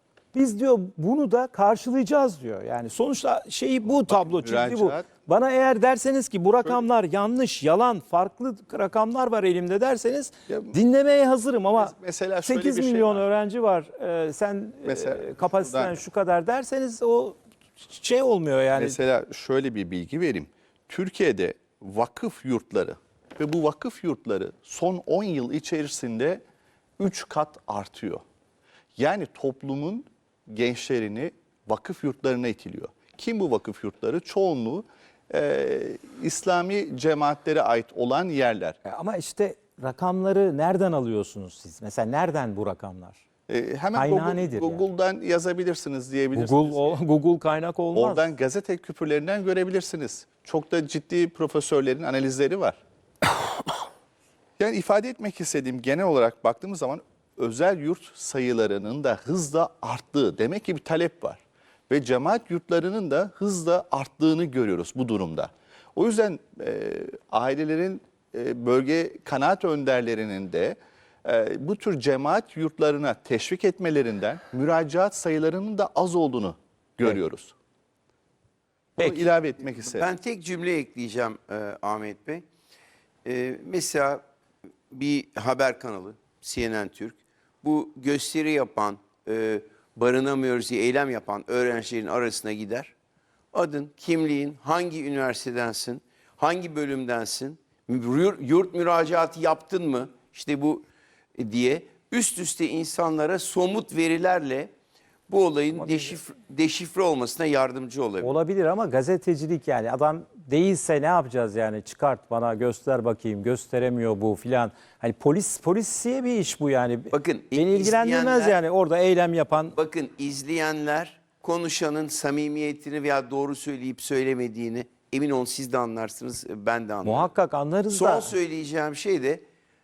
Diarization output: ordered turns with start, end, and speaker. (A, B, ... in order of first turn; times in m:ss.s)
0:00.3-0:11.9 A
0:04.0-0:05.1 B
0:10.5-0:10.7 B
0:11.8-0:13.2 B
0:12.4-0:19.0 A
0:14.8-0:15.9 B
0:18.8-0:26.4 B
0:27.0-0:28.2 B
0:29.0-0:38.8 B
0:38.8-0:43.2 A
0:43.5-0:47.0 B
0:43.9-0:44.8 A
0:46.3-0:48.3 A
0:47.9-0:52.8 B
0:54.6-1:17.5 B
1:19.0-1:20.1 B
1:19.8-1:22.4 C
1:23.2-1:24.2 C
1:24.9-1:32.9 C
1:33.5-1:44.7 C
1:45.3-1:48.3 C
1:45.8-1:46.2 A
1:48.2-1:59.7 A
1:57.1-1:58.6 C
1:59.7-2:07.3 C
2:07.0-2:08.3 A
2:07.9-2:09.4 C